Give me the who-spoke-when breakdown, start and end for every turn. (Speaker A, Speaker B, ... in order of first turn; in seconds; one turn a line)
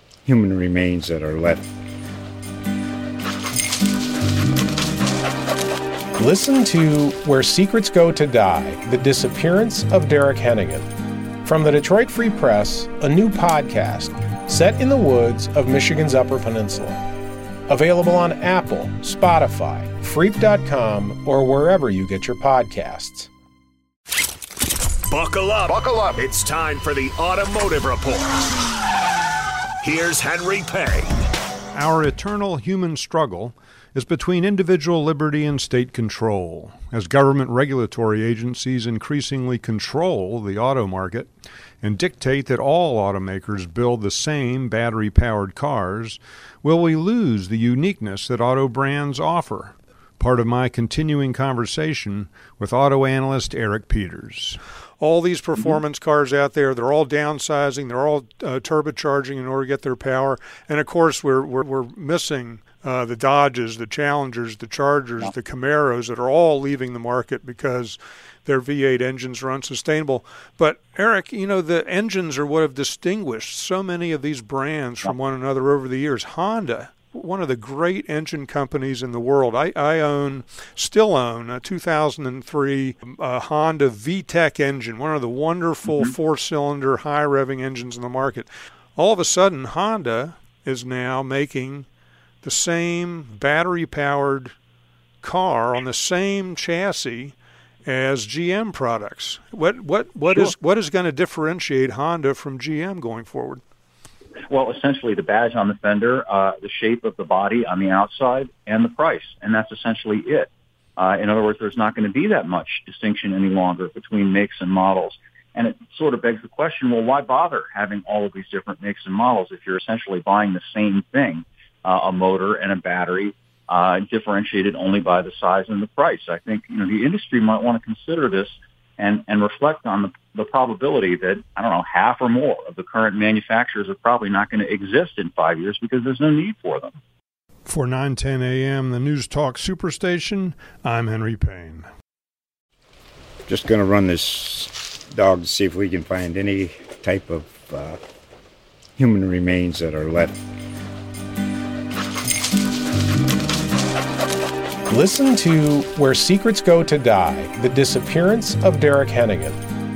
Speaker A: 0.2-1.7
Speaker B: 6.2-10.9
Speaker B: 11.4-17.0
Speaker B: 17.7-23.3
Speaker C: 25.1-28.4
Speaker C: 29.8-31.1
Speaker D: 31.7-41.3
Speaker D: 41.8-91.9
Speaker E: 85.9-86.1
Speaker D: 92.4-94.5
Speaker D: 95.2-97.3
Speaker D: 97.9-103.6
Speaker E: 104.5-137.0
Speaker D: 137.7-141.9
Speaker A: 143.5-148.0
Speaker A: 149.0-150.4
Speaker B: 154.9-159.6